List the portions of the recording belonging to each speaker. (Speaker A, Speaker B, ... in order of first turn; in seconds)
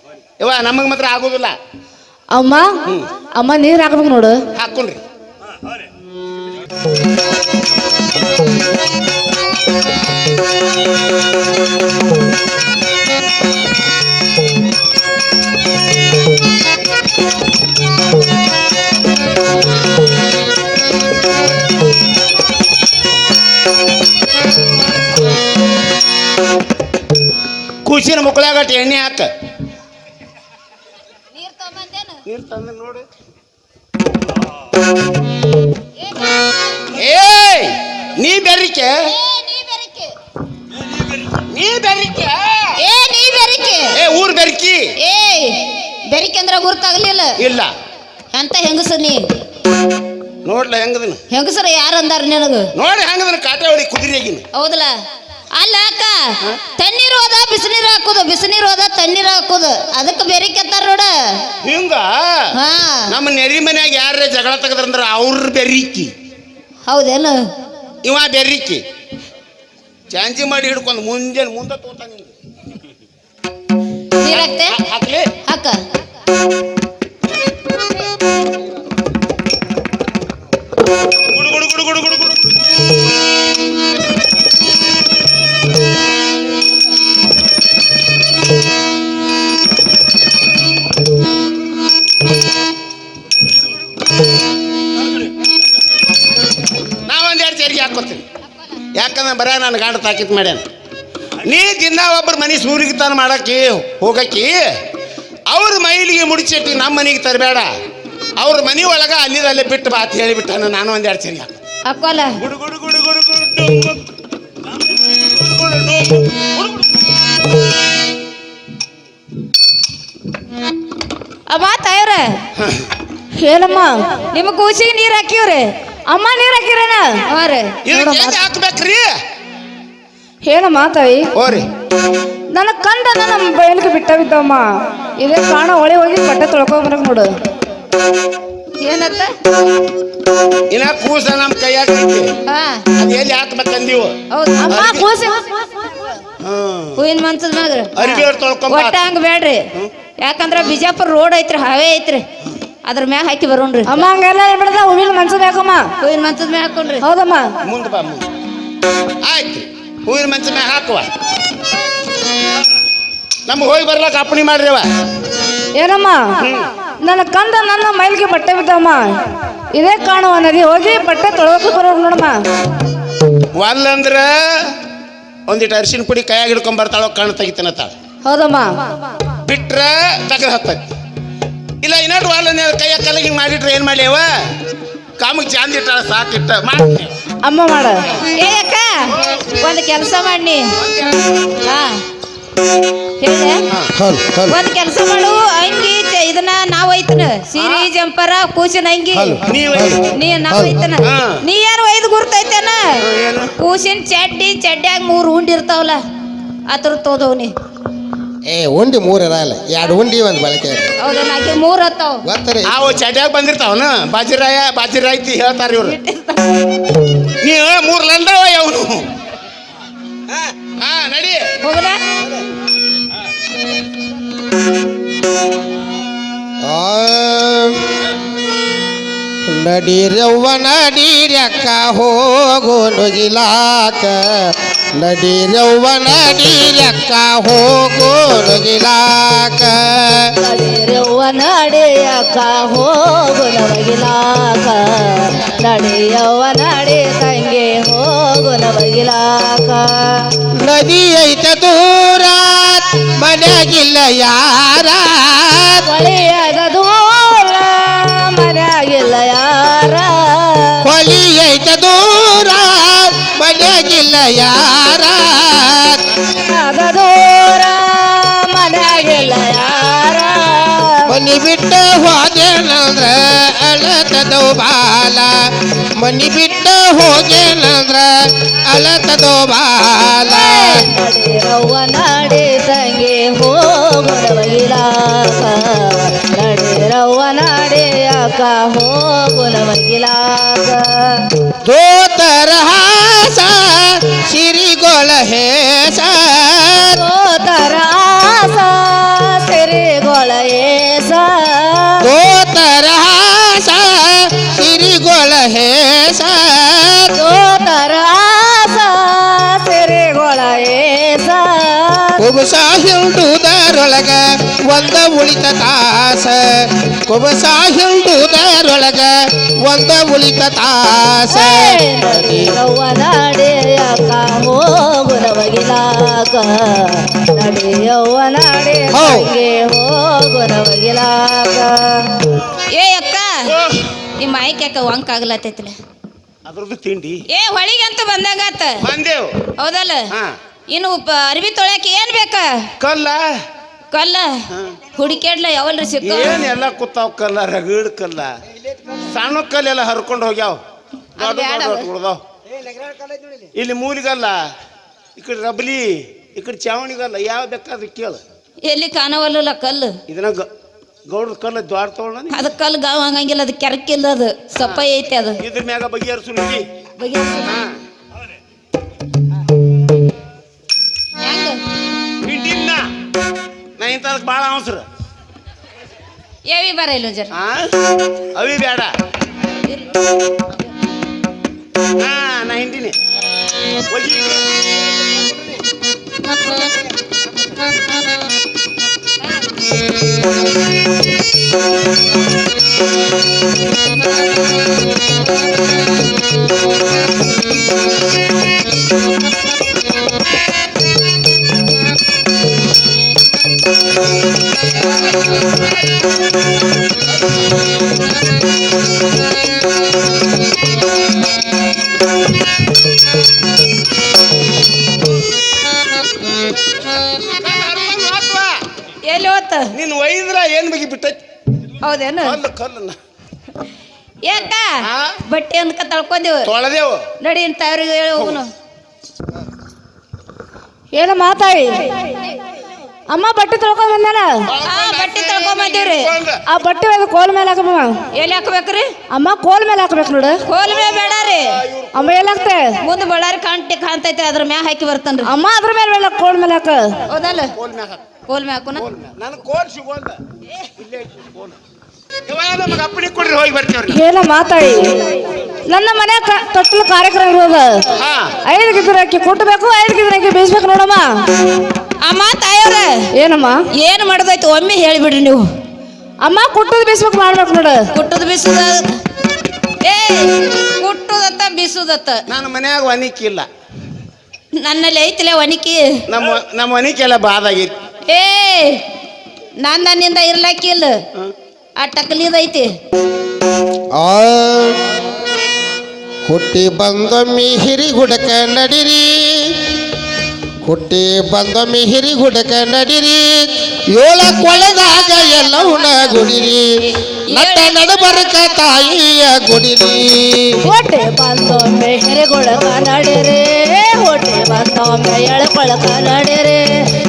Speaker A: 0.4-1.5, 4.6-5.0, 27.8-29.3, 32.2-33.0, 36.9-39.1, 41.3-42.8, 43.9-44.9, 47.4-47.7, 50.4-51.2, 52.7-54.4, 61.6-62.5, 63.1-66.1, 68.0-68.8, 70.1-72.3, 74.3-75.3, 81.2-82.5, 97.0-98.2, 98.9-100.6, 101.4-104.7, 105.5-107.7, 108.4-111.6, 112.4-114.0, 114.7-116.8, 122.6-122.9, 127.8-129.2, 131.3-131.7, 140.7-142.3, 142.9-144.2, 144.7-145.1, 146.4-147.0, 147.9-148.9, 157.6-158.2, 159.2-161.1, 163.5-164.9, 166.4-166.7, 173.6-174.8, 175.5-177.9, 179.4-180.8, 181.8-184.3, 185.2-187.1, 189.1-189.4, 190.8-191.5, 197.6-197.8, 199.4-200.0, 201.0-201.4, 203.0-203.5, 212.6-215.9, 217.4-219.1, 220.8-221.5, 333.4-333.9, 336.4-337.2, 338.8-339.4, 340.1-340.4, 342.8-343.2, 344.5-344.8, 346.0-348.3, 348.9-350.6, 351.2-352.2, 353.5-354.5, 355.2-358.2, 360.1-360.5, 361.1-362.4, 365.4-366.7, 367.4-367.8, 372.2-372.9, 373.8-374.9, 377.3-377.7, 378.3-378.9, 382.0-383.0, 383.9-384.4, 417.2-418.6, 419.7-421.2, 422.2-423.0, 424.8-425.2, 426.4-427.1, 434.5-436.4, 440.6-442.3, 447.5-448.0, 448.7-451.6, 452.3-454.0, 458.0-458.3, 472.3-473.5, 476.1-477.8
Speaker B: 2.3-2.8, 3.4-4.4, 123.4-124.0, 126.1-127.2, 130.4-131.3, 132.5-134.7, 135.2-137.3, 144.6-146.0, 153.9-155.9, 157.0-157.5, 165.8-166.3, 167.0-169.2, 169.8-172.4, 178.2-178.8, 187.4-188.0, 240.4-250.3, 255.8-260.8, 266.2-271.1, 280.3-291.2, 296.9-302.1, 307.1-312.2, 321.3-332.1, 430.9-431.9, 433.1-434.4, 436.5-438.0, 439.1-440.4, 441.9-442.8, 445.2-446.9, 453.9-454.9, 455.7-457.8, 458.5-461.1, 463.1-463.6, 466.2-467.9, 500.6-506.6
Speaker C: 31.3-32.2, 39.1-40.1, 42.8-44.0, 45.0-47.4, 48.3-49.3, 51.3-52.7, 54.5-55.0, 55.5-61.4, 62.5-63.1, 66.9-67.5, 74.2-74.8, 75.4-75.8, 111.9-112.3, 121.5-122.4, 124.3-125.7, 127.3-128.3, 138.8-139.3, 142.5-142.8, 144.3-144.7, 147.0-149.7, 150.2-152.2, 152.8-154.1, 156.0-157.0, 188.3-190.7, 191.6-192.0, 193.2-193.6, 194.5-199.4, 200.1-203.0, 203.6-206.0, 206.7-207.5, 211.0-212.2, 215.8-216.6, 221.6-222.0, 332.7-333.5, 334.2-335.8, 337.3-338.8, 339.6-340.1, 340.7-342.7, 343.9-344.4, 344.9-346.4, 351.2-351.9, 358.6-360.0, 362.3-365.4, 367.0-367.5, 371.2-371.6, 376.5-377.3, 419.1-419.7, 421.8-422.4, 424.2-426.5, 427.2-428.5, 434.6-436.1, 438.1-438.9, 440.5-441.6, 442.8-445.3, 447.1-447.5, 448.3-448.8, 462.0-463.1, 463.8-465.4, 467.9-468.9, 469.8-472.2, 474.6-476.0, 478.1-478.8, 479.6-481.0, 481.8-482.7, 495.1-496.2, 497.3-497.7
Speaker D: 193.9-194.6, 199.1-200.9, 208.5-210.9, 212.2-212.7, 226.6-228.1, 229.4-240.3, 250.6-255.8, 260.8-266.0, 271.1-275.4, 276.0-280.9, 291.6-297.0, 302.0-307.1, 312.2-322.6, 328.9-329.3, 483.9-485.0, 486.2-489.7, 490.6-496.7, 497.3-500.6